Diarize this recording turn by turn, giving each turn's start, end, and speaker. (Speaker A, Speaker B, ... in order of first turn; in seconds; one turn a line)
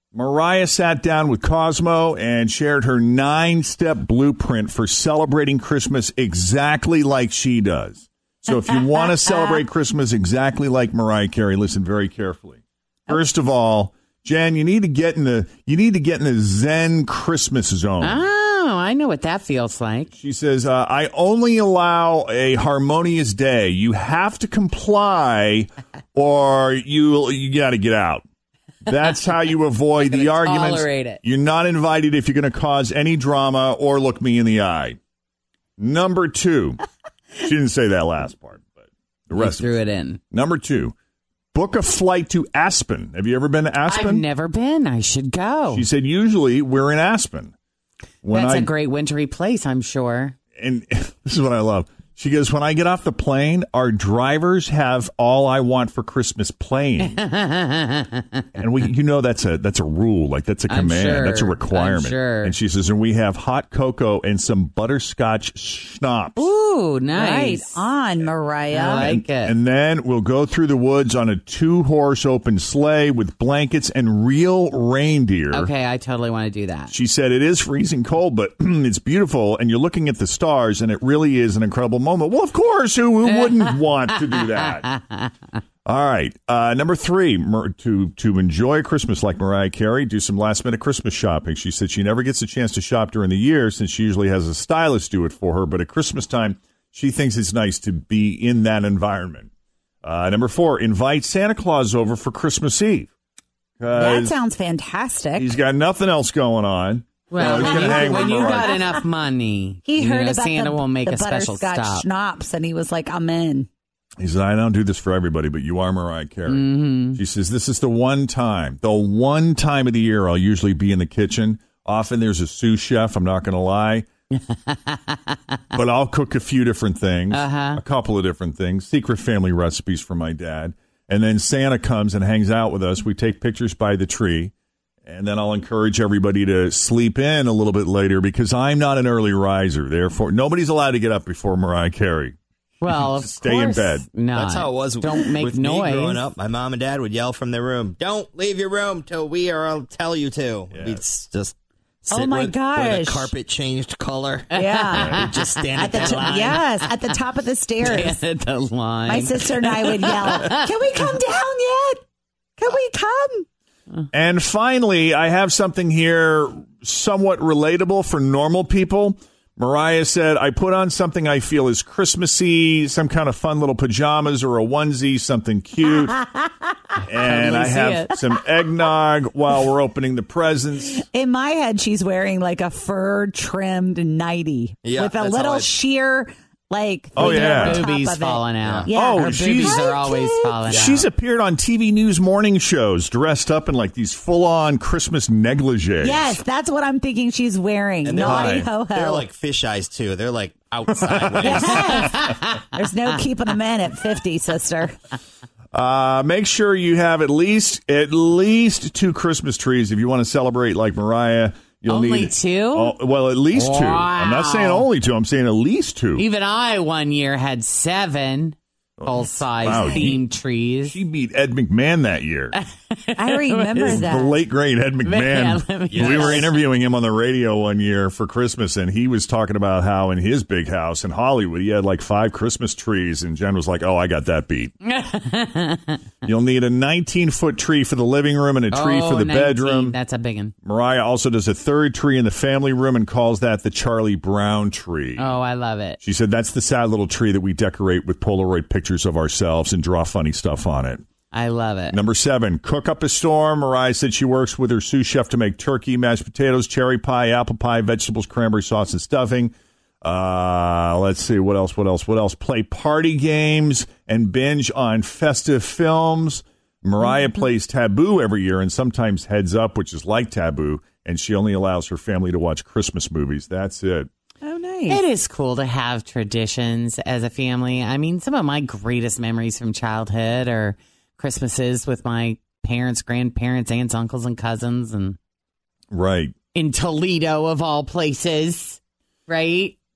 Speaker A: 0.1-18.2
Speaker B: 8.5-9.6
Speaker C: 18.0-20.1
Speaker A: 20.1-28.2
Speaker A: 28.8-35.0
Speaker C: 30.0-31.2
Speaker A: 35.8-36.8
Speaker A: 37.4-38.7
Speaker A: 39.3-39.8
Speaker C: 39.3-40.2
Speaker A: 40.3-40.9
Speaker A: 41.5-44.2
Speaker C: 43.9-45.8
Speaker A: 45.7-47.5
Speaker A: 48.2-48.7
Speaker C: 48.3-50.4
Speaker A: 50.6-57.2
Speaker C: 57.0-58.5
Speaker A: 58.6-66.5
Speaker C: 60.7-62.5
Speaker C: 66.3-67.8
Speaker B: 67.1-69.1
Speaker C: 68.7-69.5
Speaker A: 69.0-75.7
Speaker C: 75.5-76.9
Speaker A: 76.9-84.9
Speaker C: 83.2-85.3
Speaker A: 85.8-99.5
Speaker A: 100.0-103.1
Speaker A: 103.8-104.4
Speaker B: 103.9-105.5
Speaker A: 105.4-109.0
Speaker C: 107.3-112.0
Speaker B: 107.4-108.6
Speaker B: 109.8-113.7
Speaker A: 114.2-124.1
Speaker C: 116.5-117.2
Speaker C: 124.3-125.5
Speaker A: 125.7-134.5
Speaker C: 127.3-127.8
Speaker A: 135.1-142.3
Speaker C: 142.8-146.2
Speaker A: 142.9-144.1
Speaker D: 144.3-156.6
Speaker A: 150.7-151.0
Speaker B: 152.1-153.3
Speaker C: 154.5-156.9
Speaker B: 154.5-158.2
Speaker C: 157.8-160.7
Speaker B: 159.1-162.0
Speaker B: 162.6-163.5
Speaker A: 164.1-176.2
Speaker B: 175.8-176.5
Speaker A: 177.0-181.0
Speaker C: 177.2-178.1
Speaker B: 180.9-190.7
Speaker D: 184.8-185.7
Speaker A: 187.2-187.8
Speaker C: 187.2-191.0
Speaker D: 188.6-188.9
Speaker A: 188.9-189.8
Speaker A: 190.7-196.2
Speaker B: 196.0-199.3
Speaker D: 198.0-202.1
Speaker A: 198.2-198.7
Speaker A: 200.9-202.1
Speaker B: 201.4-204.9
Speaker C: 201.9-202.7
Speaker A: 205.7-216.2
Speaker C: 211.9-212.9
Speaker C: 213.5-214.9
Speaker C: 216.2-221.0
Speaker A: 219.0-220.2
Speaker A: 220.8-222.6
Speaker C: 222.5-224.1
Speaker B: 223.2-224.4
Speaker A: 223.8-234.7
Speaker C: 225.0-226.5
Speaker D: 225.9-226.5
Speaker C: 234.8-236.0
Speaker A: 236.2-240.0
Speaker C: 238.7-240.5
Speaker A: 240.6-245.3
Speaker C: 245.2-246.0
Speaker A: 246.0-251.0
Speaker C: 251.3-252.0
Speaker A: 251.9-274.1
Speaker B: 274.4-275.0
Speaker C: 274.9-285.2
Speaker A: 285.9-286.3
Speaker C: 286.5-289.8